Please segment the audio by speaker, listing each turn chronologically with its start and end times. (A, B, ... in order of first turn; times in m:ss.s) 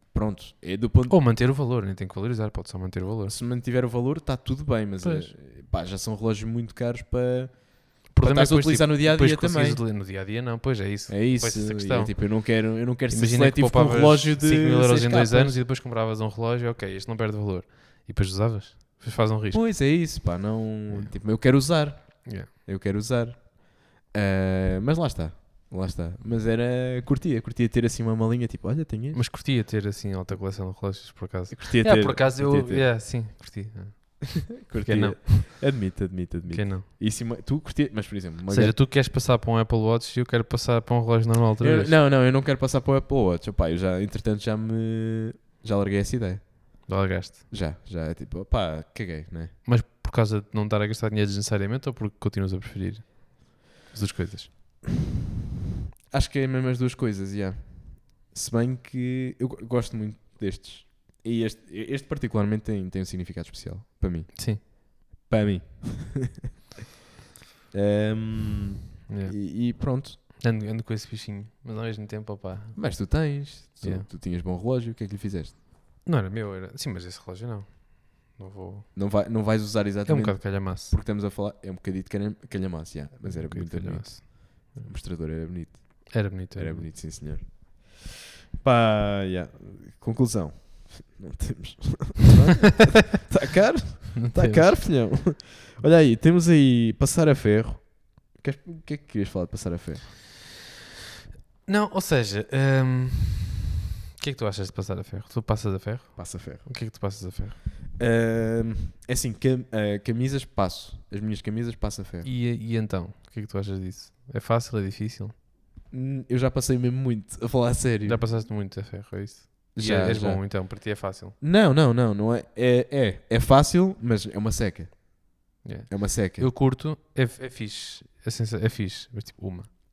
0:00.1-0:01.2 A
0:01.1-0:03.4 B
0:03.3-0:09.8 A
0:05.0-0:05.4 B
0:08.1-0:12.5 B
0:11.1-0:15.6 A
0:13.1-0:19.7 B
0:19.5-0:29.2 A
0:20.9-0:21.2 B
0:22.2-0:22.5 B
0:29.1-0:35.9 B
0:31.5-0:32.9 A
0:34.6-0:38.8 A
0:36.5-0:36.9 B
0:38.5-0:42.0 B
0:41.6-0:49.6 A
0:46.9-0:47.4 B
0:49.6-0:54.5 B
0:56.1-1:06.3 A
1:04.4-1:04.6 B
1:07.7-1:10.2 A
1:09.1-1:09.4 B
1:10.3-1:14.1 B
1:12.8-1:15.6 A
1:16.0-1:18.9 B
1:18.9-1:28.1 A
1:20.1-1:21.0 B
1:23.2-1:24.9 B
1:26.1-1:26.9 B
1:28.6-1:40.1 A
1:34.2-1:34.8 B
1:41.7-1:47.7 B
1:46.2-1:47.2 A
1:48.0-1:52.3 A
1:52.2-1:55.4 B
1:55.9-1:58.3 A
1:58.0-2:01.4 B
1:59.7-2:06.5 A
2:05.6-2:09.8 B